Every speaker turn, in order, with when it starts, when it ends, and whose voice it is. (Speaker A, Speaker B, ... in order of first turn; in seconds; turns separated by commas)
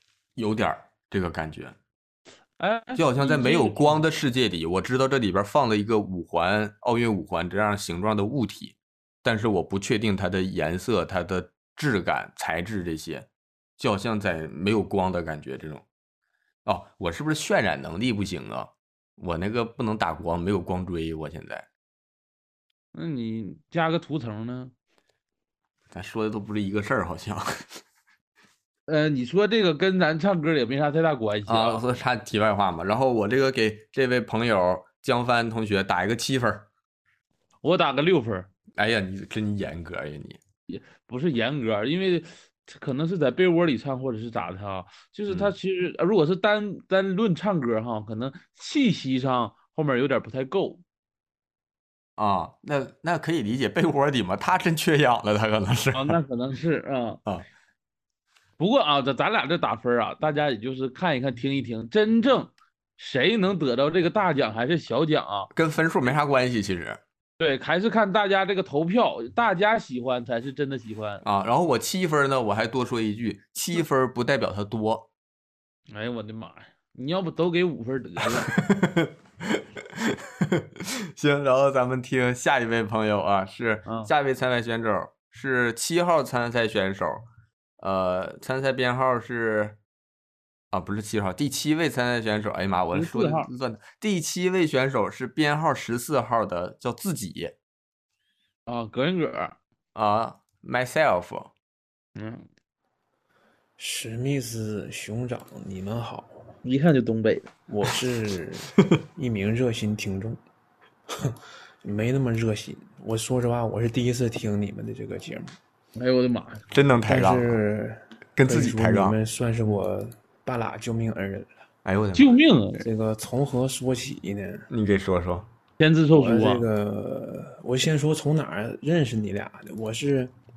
Speaker A: 0.4-1.8, Speaker B: 2.6-4.0, Speaker A: 3.0-13.3, Speaker A: 13.8-15.8, Speaker A: 16.6-21.7, Speaker B: 22.9-24.7, Speaker A: 25.9-27.8, Speaker B: 28.9-31.8, Speaker A: 31.5-36.7, Speaker B: 37.6-38.5, Speaker A: 38.8-40.4, Speaker B: 40.7-50.8, Speaker A: 52.2-56.2, Speaker B: 55.9-57.2, Speaker B: 58.6-65.5, Speaker A: 65.5-67.0, Speaker B: 67.4-71.2, Speaker A: 71.2-75.1, Speaker B: 75.9-78.6, Speaker A: 78.3-79.6, Speaker A: 81.2-87.2, Speaker A: 87.8-89.8, Speaker A: 90.7-97.5, Speaker B: 92.9-93.5, Speaker B: 98.7-99.6, Speaker A: 100.0-101.5, Speaker B: 102.2-102.5, Speaker C: 103.8-106.5, Speaker B: 106.6-107.5, Speaker C: 107.7-110.4, Speaker C: 111.2-115.5, Speaker B: 116.0-116.6, Speaker A: 116.7-117.6, Speaker C: 117.1-121.6, Speaker A: 118.4-119.2, Speaker A: 121.8-122.2, Speaker B: 122.2-122.8, Speaker C: 122.8-124.7, Speaker A: 124.7-125.5, Speaker B: 125.8-126.7, Speaker C: 126.1-130.3